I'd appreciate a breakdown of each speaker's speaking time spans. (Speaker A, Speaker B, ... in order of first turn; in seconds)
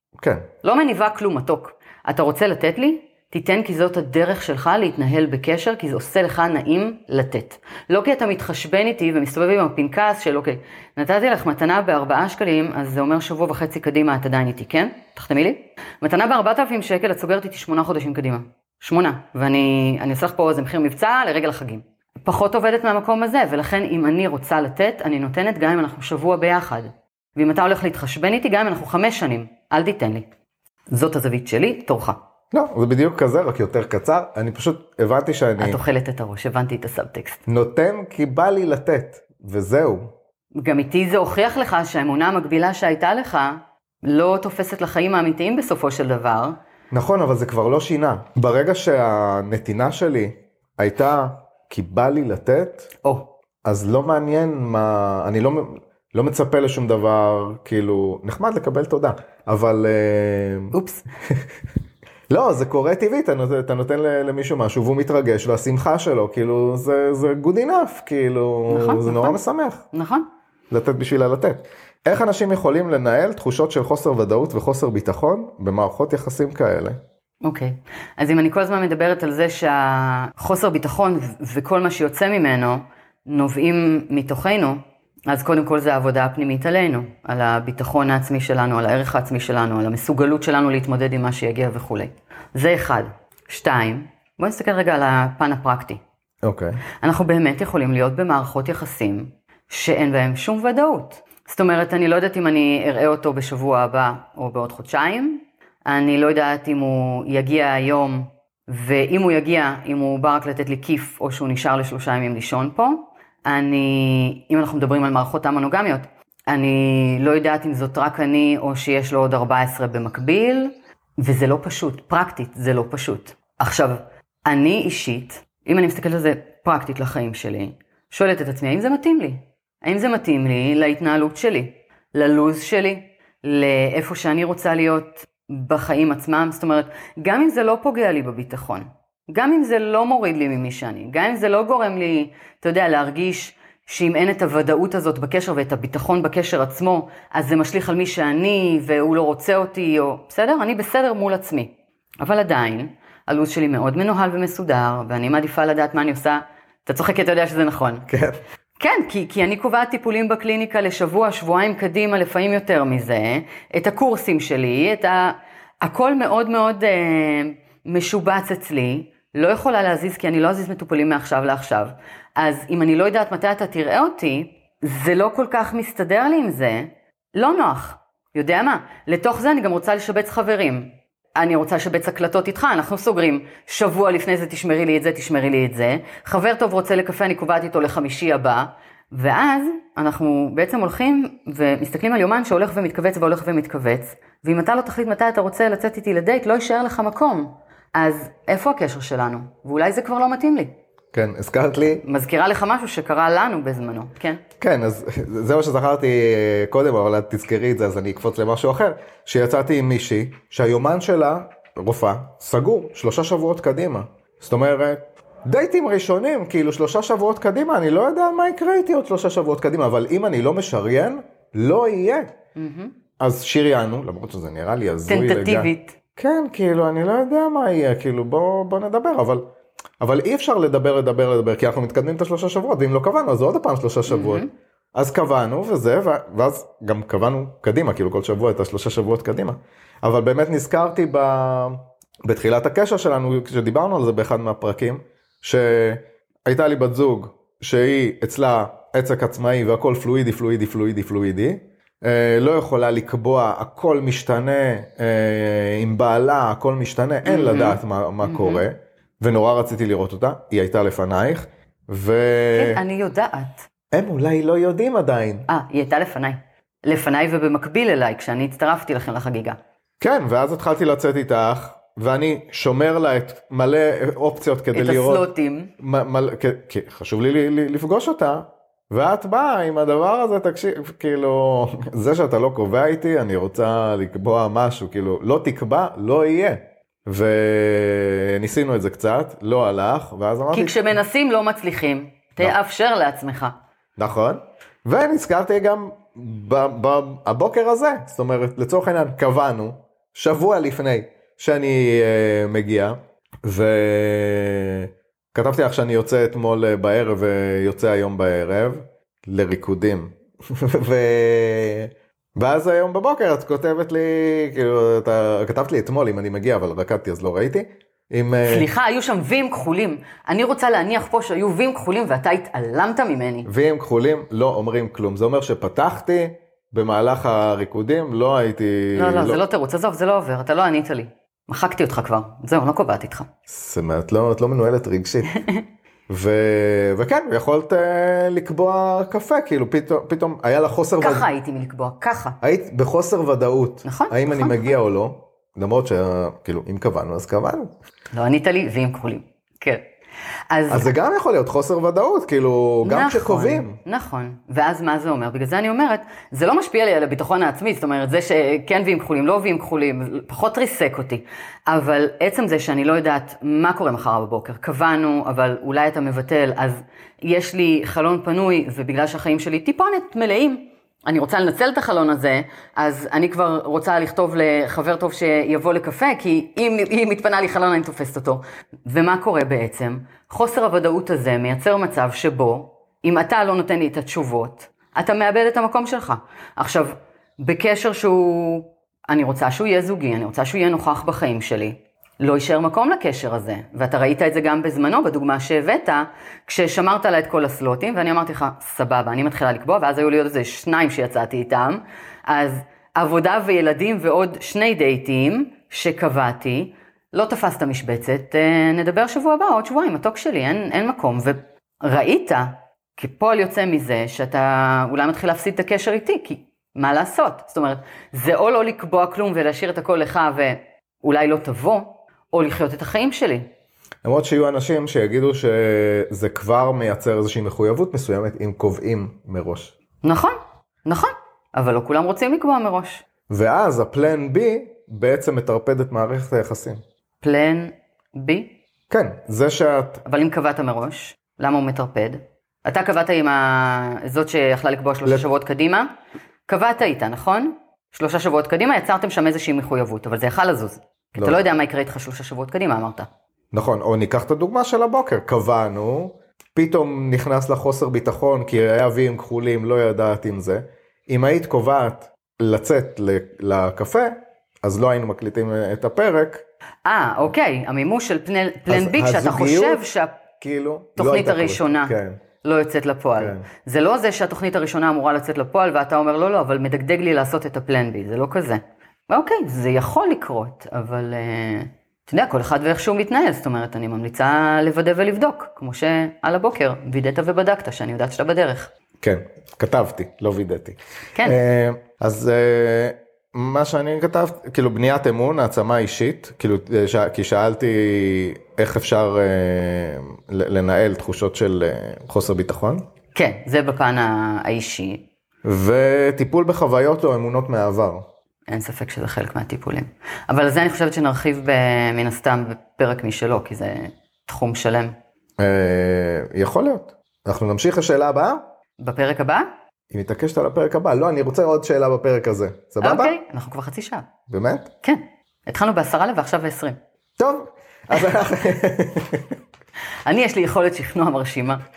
Speaker A: 0.2-0.5, 32.5-35.8, 37.5-40.1, 46.9-52.9, 53.6-60.7, 62.3-69.8, 70.7-77.0, 96.4-96.8, 158.1-158.4, 201.1-202.0, 204.6-222.3, 223.2-229.4, 230.0-234.4, 234.9-262.8, 263.9-265.5, 270.0-275.3, 275.8-290.8, 294.0-318.7, 323.4-329.4, 333.5-335.3, 336.1-341.2, 342.4-347.7, 350.7-353.8, 424.0-429.7, 433.3-436.8, 438.9-440.0, 453.5-466.4, 468.7-469.8, 470.4-472.2, 473.1-473.4, 489.0-502.8, 505.4-508.0, 515.4-518.4, 519.9-523.1, 524.3-524.7, 527.2-529.4
Speaker B: 0.6-30.3, 30.9-32.2, 35.6-37.4, 40.5-46.6, 53.0-53.3, 60.7-61.0, 68.7-69.4, 69.9-70.3, 77.4-96.0, 97.0-158.1, 158.8-200.7, 202.0-204.4, 222.6-222.9, 225.1-225.9, 234.1-234.5, 257.2-258.6, 262.5-263.6, 265.5-269.6, 274.7-275.7, 290.5-293.5, 318.4-323.5, 328.9-333.3, 335.3-335.6, 341.0-342.4, 343.8-344.7, 348.1-349.8, 350.5-350.9, 352.8-423.5, 430.0-433.0, 437.2-438.5, 440.0-445.9, 446.5-453.1, 466.8-470.2, 471.0-488.7, 503.1-505.0, 508.5-514.9, 518.8-519.5, 522.8-524.1, 524.8-526.8, 530.0-531.6